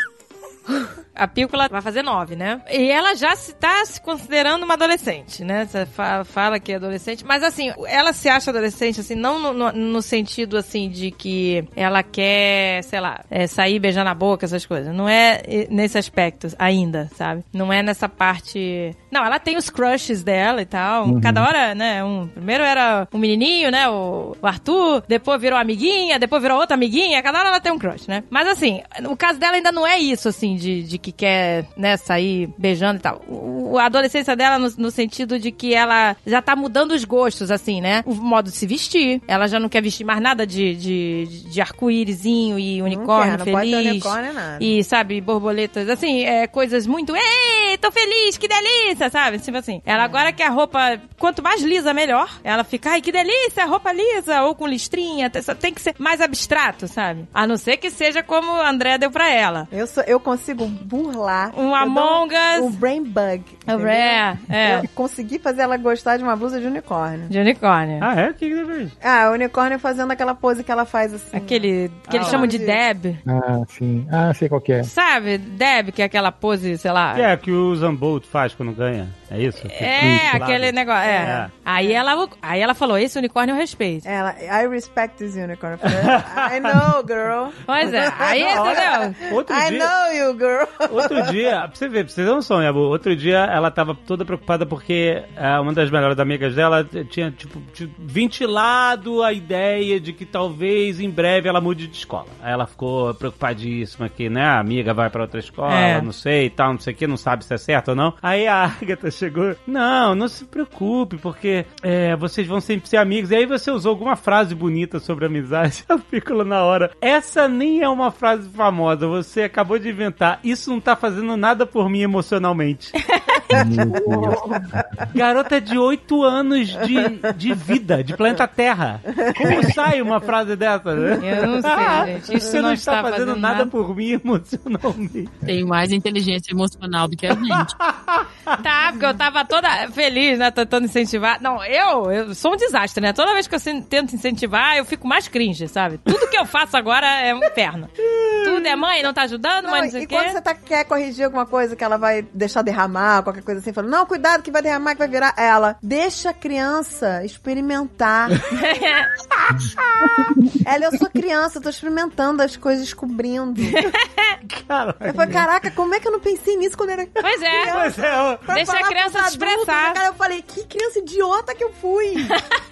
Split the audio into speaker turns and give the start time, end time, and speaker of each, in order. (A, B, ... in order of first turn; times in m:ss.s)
0:01.2-0:59.7 A
0:21.0-0:21.5 B
0:42.9-0:44.7 C
0:59.7-1:07.3 C
1:01.5-1:02.7 A
1:03.7-1:04.9 A
1:07.3-1:08.1 A
1:08.0-1:09.0 D
1:09.0-1:12.8 C
1:11.3-1:13.2 A
1:12.1-1:12.5 D
1:13.2-1:14.9 B
1:14.8-1:17.3 A
1:17.1-1:21.5 D
1:19.8-1:24.0 A
1:21.1-1:21.5 C
1:24.0-1:31.3 C
1:25.9-1:26.9 D
1:27.7-1:29.2 A
1:28.4-1:29.9 D
1:30.9-2:03.0 D
1:45.7-1:46.1 A
2:03.0-2:04.6 A
2:03.5-2:05.1 B
2:03.9-2:05.0 C
2:05.1-2:15.4 D
2:09.2-2:09.7 C
2:11.2-2:13.7 A
2:11.7-2:12.0 C
2:15.4-2:17.8 E
2:17.5-2:18.5 D
2:18.6-2:30.4 A
2:28.0-2:28.8 D
2:29.6-2:38.5 C
2:38.5-2:39.1 A
2:39.3-2:40.3 D
2:40.6-2:43.9 C
2:43.8-2:44.3 A
2:44.4-2:45.5 D
2:45.1-2:52.4 C
2:47.2-2:47.8 A
2:47.7-2:48.5 D
2:48.5-2:50.0 A